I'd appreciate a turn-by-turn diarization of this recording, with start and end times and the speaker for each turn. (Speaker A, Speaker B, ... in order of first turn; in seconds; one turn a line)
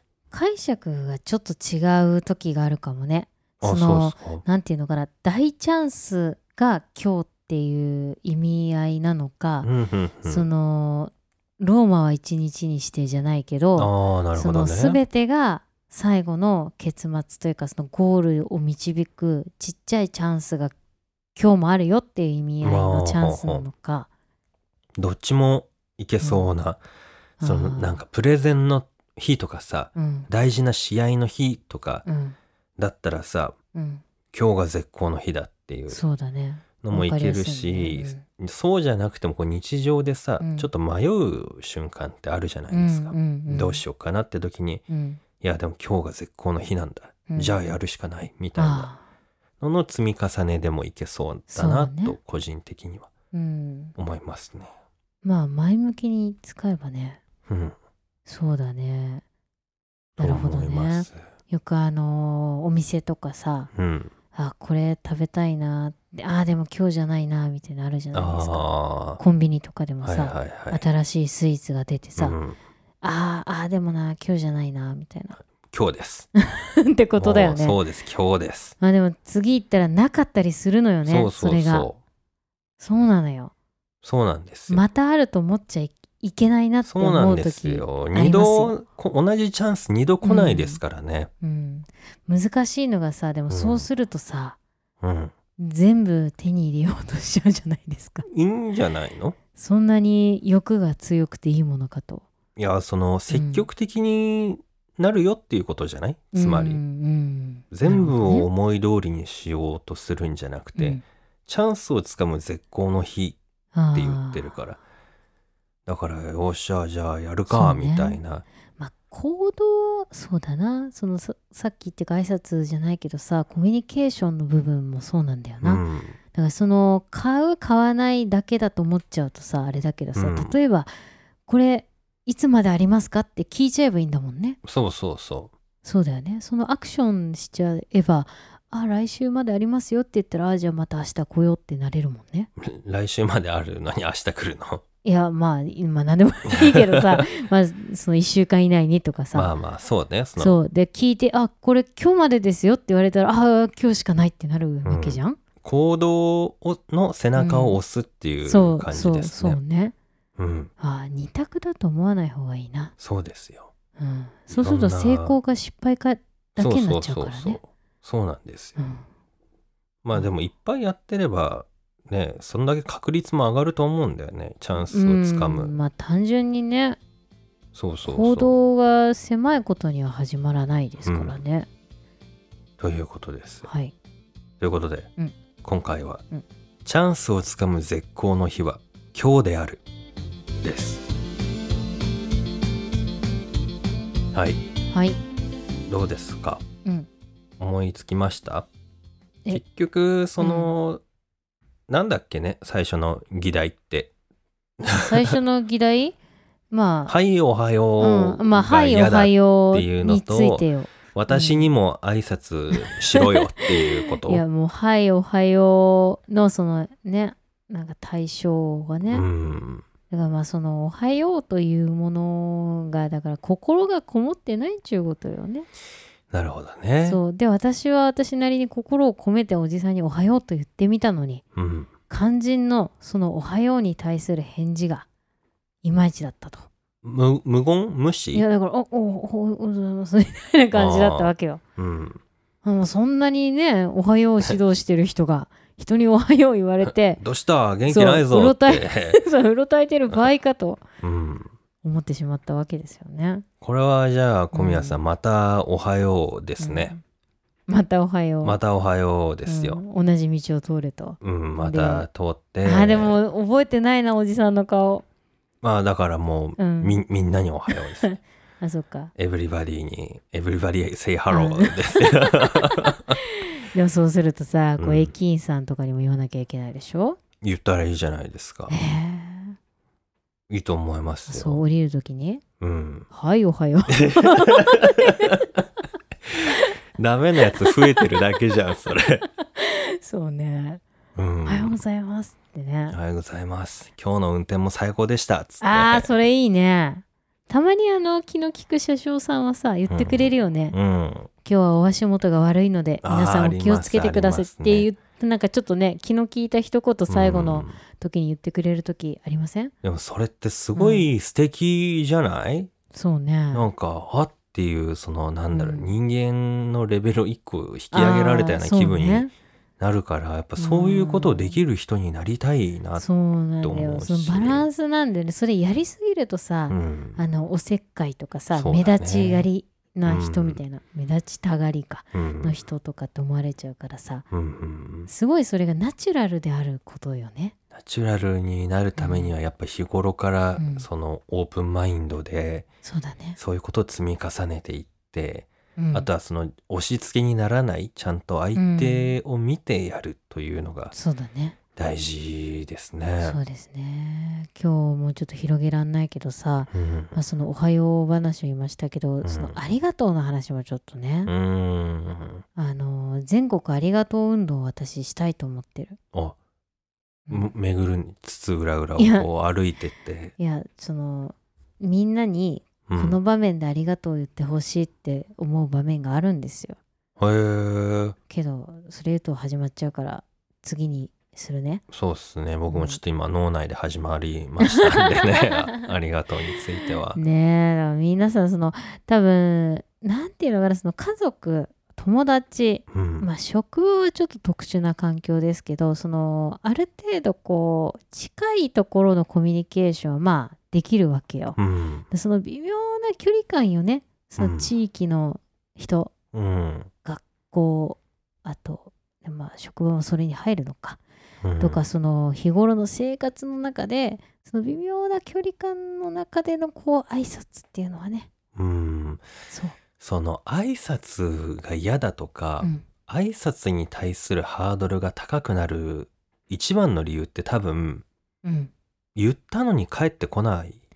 Speaker A: 0.3-9.7
Speaker B: 3.6-4.4
Speaker B: 9.6-10.5
Speaker A: 10.3-20.7
Speaker B: 13.8-15.0
Speaker A: 21.4-24.1
Speaker B: 22.6-23.6
Speaker B: 25.0-26.8
Speaker A: 26.2-26.5
Speaker A: 27.4-28.0
Speaker B: 27.4-32.0
Speaker A: 30.0-30.3
Speaker A: 32.0-32.4
Speaker B: 32.8-33.6
Speaker A: 33.7-34.0
Speaker B: 34.3-36.0
Speaker A: 35.9-38.2
Speaker B: 36.8-44.8
Speaker A: 40.4-40.7
Speaker A: 42.7-43.8
Speaker A: 44.9-45.2
Speaker B: 45.4-48.9
Speaker A: 47.3-47.6
Speaker A: 48.6-49.0
Speaker B: 49.6-53.1
Speaker A: 51.5-52.2
Speaker A: 53.3-54.0
Speaker B: 54.0-54.7
Speaker A: 55.2-57.2
Speaker B: 57.5-57.8
Speaker A: 58.3-59.2
Speaker A: 60.2-63.7
Speaker B: 60.2-61.2
Speaker B: 63.7-64.1
Speaker A: 64.3-68.7
Speaker B: 68.1-69.2
Speaker A: 69.2-72.4
Speaker B: 70.0-70.8
Speaker B: 72.2-72.6
Speaker A: 73.0-75.4
Speaker B: 75.4-76.3
Speaker A: 76.4-77.8
Speaker B: 77.2-78.8
Speaker A: 78.8-81.9
Speaker B: 81.1-82.0
Speaker A: 82.8-83.5
Speaker B: 84.0-84.8
Speaker A: 84.7-88.7
Speaker B: 86.8-91.3
Speaker A: 90.2-90.8
Speaker A: 91.4-94.6
Speaker B: 93.5-93.9
Speaker B: 95.0-95.3
Speaker A: 95.6-98.3
Speaker B: 98.3-99.4
Speaker A: 99.6-102.3
Speaker B: 102.6-106.8
Speaker A: 103.3-103.7
Speaker A: 106.3-108.5
Speaker B: 107.7-113.4
Speaker A: 110.8-111.0
Speaker A: 113.7-114.5
Speaker B: 113.9-114.8
Speaker B: 115.9-118.5
Speaker A: 117.5-118.2
Speaker A: 118.8-125.8
Speaker B: 125.6-126.2
Speaker A: 126.3-130.9
Speaker B: 130.2-130.6
Speaker A: 131.5-134.6
Speaker B: 134.6-135.5
Speaker A: 135.8-142.5
Speaker B: 142.6-144.8
Speaker A: 145.0-149.5
Speaker B: 146.5-147.2
Speaker B: 149.3-150.6
Speaker A: 150.4-155.4
Speaker B: 154.8-159.6
Speaker A: 157.4-157.8
Speaker A: 158.5-159.9
Speaker B: 160.4-160.7
Speaker A: 160.8-162.9
Speaker B: 163.0-163.7
Speaker A: 164.0-167.6
Speaker B: 164.6-165.4
Speaker B: 166.6-168.8
Speaker A: 168.8-169.1
Speaker B: 170.0-175.8
Speaker A: 174.9-177.0
Speaker B: 177.7-178.5
Speaker A: 178.1-181.7
Speaker B: 181.0-181.4
Speaker B: 182.8-183.7
Speaker A: 183.6-183.9
Speaker B: 184.6-185.1
Speaker B: 185.6-186.2
Speaker B: 186.8-189.8
Speaker B: 190.6-191.1
Speaker B: 194.3-194.6
Speaker A: 194.9-195.2
Speaker B: 195.9-196.6
Speaker B: 197.6-198.7
Speaker B: 199.5-201.0
Speaker A: 200.4-200.7
Speaker B: 201.9-204.1
Speaker B: 204.8-205.4
Speaker A: 204.9-206.1
Speaker A: 206.7-207.1
Speaker B: 207.1-214.4
Speaker A: 208.0-211.7
Speaker A: 212.7-219.3
Speaker B: 219.1-219.8
Speaker A: 220.1-225.7
Speaker B: 226.3-227.2
Speaker A: 227.0-231.4
Speaker B: 231.6-231.9
Speaker A: 232.1-235.1
Speaker A: 235.8-236.7
Speaker B: 237.0-238.4
Speaker A: 238.3-241.6
Speaker B: 240.7-242.2
Speaker A: 242.6-247.2
Speaker B: 246.8-249.2
Speaker A: 247.9-250.8
Speaker B: 251.0-251.5
Speaker A: 251.8-253.5
Speaker B: 253.6-256.9
Speaker A: 254.5-255.0
Speaker A: 256.6-257.0
Speaker A: 257.7-258.6
Speaker B: 258.4-259.8
Speaker A: 259.5-262.1
Speaker B: 261.2-263.2
Speaker A: 262.6-265.1
Speaker B: 265.6-268.1
Speaker A: 266.6-267.0
Speaker A: 268.0-269.1
Speaker B: 269.2-273.2
Speaker A: 271.3-277.2
Speaker B: 274.8-275.1
Speaker B: 277.4-278.7
Speaker A: 278.7-279.6
Speaker B: 280.5-281.6
Speaker A: 281.3-282.4
Speaker B: 282.6-283.1
Speaker A: 283.1-285.4
Speaker B: 283.9-285.6
Speaker B: 286.3-289.3
Speaker A: 286.4-286.7
Speaker A: 287.4-288.2
Speaker A: 289.4-290.8
Speaker B: 291.2-291.8
Speaker A: 291.4-293.0
Speaker B: 292.9-296.1
Speaker A: 295.6-300.8
Speaker B: 299.9-301.3
Speaker A: 301.4-309.7
Speaker B: 303.0-304.9
Speaker B: 307.1-307.8
Speaker B: 309.8-312.7
Speaker A: 310.8-311.1
Speaker A: 312.9-313.7
Speaker B: 313.5-319.3
Speaker A: 315.5-315.9
Speaker A: 317.9-319.3
Speaker B: 319.8-323.1
Speaker A: 320.6-321.6
Speaker A: 323.0-334.3
Speaker B: 323.6-324.7
Speaker B: 326.7-327.2
Speaker B: 328.5-329.5
Speaker B: 330.1-330.6
Speaker B: 332.1-332.6
Speaker B: 334.3-335.1
Speaker A: 335.1-337.6
Speaker B: 337.7-342.7
Speaker A: 339.0-339.3
Speaker A: 340.6-340.9
Speaker A: 342.8-343.4
Speaker B: 343.4-350.9
Speaker A: 345.8-346.1
Speaker A: 348.6-349.2
Speaker A: 350.9-351.6
Speaker B: 351.8-353.4
Speaker A: 353.2-361.3
Speaker B: 356.7-357.2
Speaker B: 359.2-359.6
Speaker B: 361.3-362.4
Speaker A: 362.6-366.0
Speaker A: 367.3-367.5
Speaker B: 367.3-370.4
Speaker A: 369.0-369.3
Speaker A: 370.4-376.8
Speaker B: 372.9-373.2
Speaker B: 377.2-378.2
Speaker A: 378.3-381.8
Speaker B: 381.9-387.2
Speaker A: 382.7-383.0
Speaker A: 384.6-385.6
Speaker A: 387.1-401.6
Speaker B: 392.9-393.3
Speaker B: 401.6-402.1
Speaker A: 402.1-406.1
Speaker B: 404.4-404.7
Speaker B: 406.3-406.9
Speaker A: 407.1-411.0
Speaker B: 411.4-411.8
Speaker A: 411.6-418.3
Speaker B: 418.6-419.2
Speaker A: 419.5-419.8
Speaker B: 420.0-428.0
Speaker A: 422.6-422.9
Speaker A: 428.4-428.7
Speaker B: 429.2-430.8